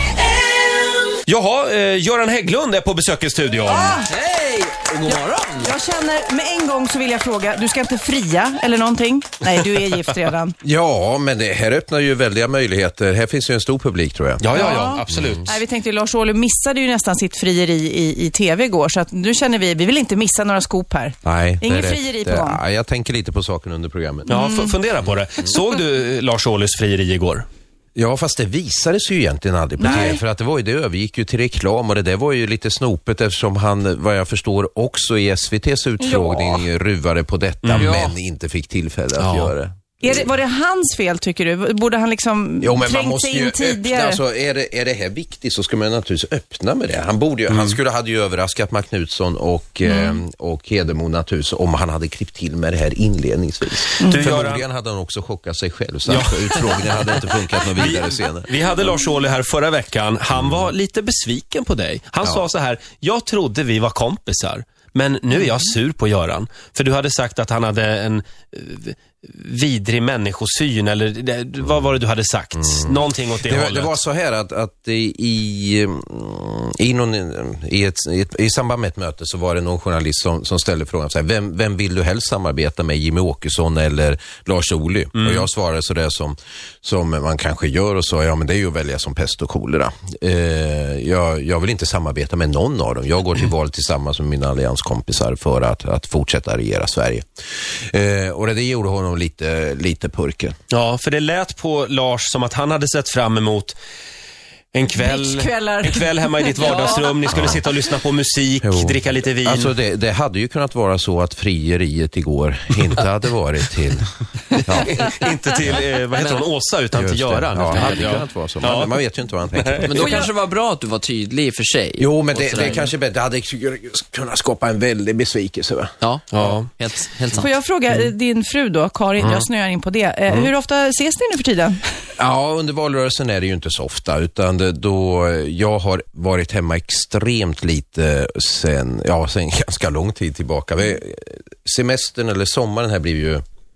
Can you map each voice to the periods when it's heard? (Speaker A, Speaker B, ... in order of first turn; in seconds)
Speaker A: 1.2-4.0, 14.4-15.5, 24.3-27.5, 37.6-38.0, 39.2-39.5, 47.5-47.8, 54.1-54.6, 56.1-74.0, 85.2-85.5, 100.7-103.8, 104.7-109.7, 114.7-119.0, 119.5-120.1, 126.3-126.7
Speaker B: 3.6-4.1, 5.1-10.5, 14.5-22.6, 24.3-24.7, 29.8-30.2, 36.0-36.6, 40.0-44.2, 49.9-50.2, 104.9-107.5, 120.0-120.3, 127.4-131.9
Speaker C: 4.1-5.7, 37.8-38.1, 106.6-107.0, 116.2-116.5, 117.6-118.2, 119.8-122.9, 126.0-127.5
Speaker D: 10.6-15.5, 21.2-24.4, 25.0-25.6, 27.9-40.3, 42.6-58.6, 60.3-60.7, 72.5-97.2, 97.9-100.5, 107.3-107.6, 108.6-115.0, 116.9-120.2, 122.0-125.9, 129.2-129.5, 132.2-143.4